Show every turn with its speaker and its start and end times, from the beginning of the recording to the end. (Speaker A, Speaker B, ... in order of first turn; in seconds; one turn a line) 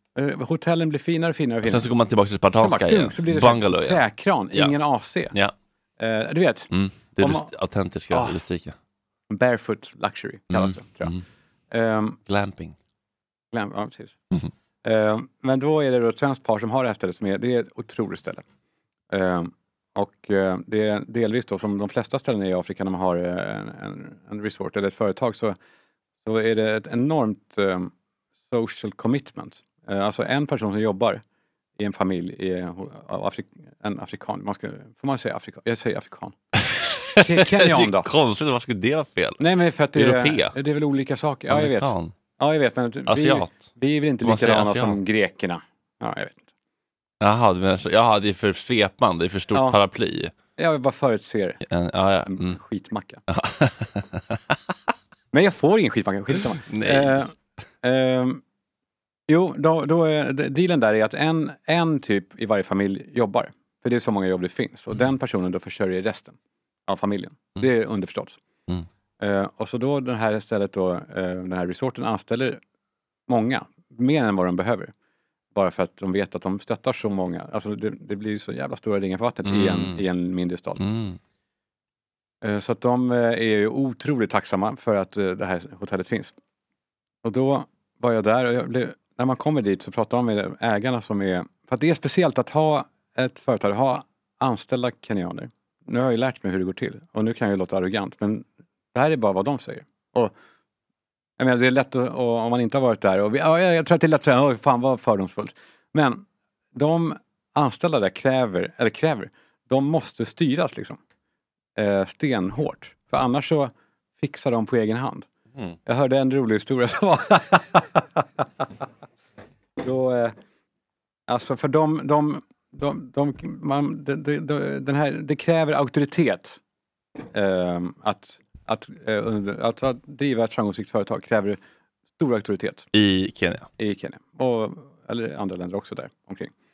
Speaker A: 0.1-1.9
Speaker B: 1.6-4.7
Speaker A: 2.6-5.3
Speaker A: 6.0-7.5
Speaker B: 6.7-8.8
Speaker A: 8.1-8.4
Speaker A: 9.3-11.1
Speaker B: 10.5-11.2
Speaker A: 11.7-12.2
Speaker B: 12.3-12.8
Speaker A: 13.5-14.2
Speaker A: 14.8-18.4
Speaker A: 19.1-25.6
Speaker A: 26.2-27.9
Speaker A: 28.5-31.2
Speaker A: 31.8-36.4
Speaker B: 36.6-39.4
Speaker A: 37.2-38.1
Speaker A: 39.4-46.5
Speaker B: 40.0-40.5
Speaker B: 41.5-42.1
Speaker B: 43.1-43.7
Speaker B: 44.2-45.0
Speaker B: 47.2-50.3
Speaker A: 50.6-51.6
Speaker B: 51.6-52.6
Speaker A: 52.3-53.2
Speaker B: 53.3-54.4
Speaker A: 55.3-57.3
Speaker B: 56.6-57.3
Speaker A: 57.8-58.4
Speaker A: 59.3-66.4
Speaker A: 66.9-68.4
Speaker A: 69.2-72.6
Speaker A: 73.3-74.9
Speaker A: 75.5-80.8
Speaker B: 79.5-80.0
Speaker B: 80.8-81.2
Speaker A: 82.4-86.3
Speaker A: 87.2-100.3
Speaker A: 101.4-111.0
Speaker A: 111.8-115.3
Speaker A: 115.9-118.7
Speaker A: 119.8-120.3
Speaker A: 121.3-126.6
Speaker A: 127.3-131.6
Speaker A: 132.2-132.9
Speaker B: 132.9-133.7
Speaker A: 133.8-136.5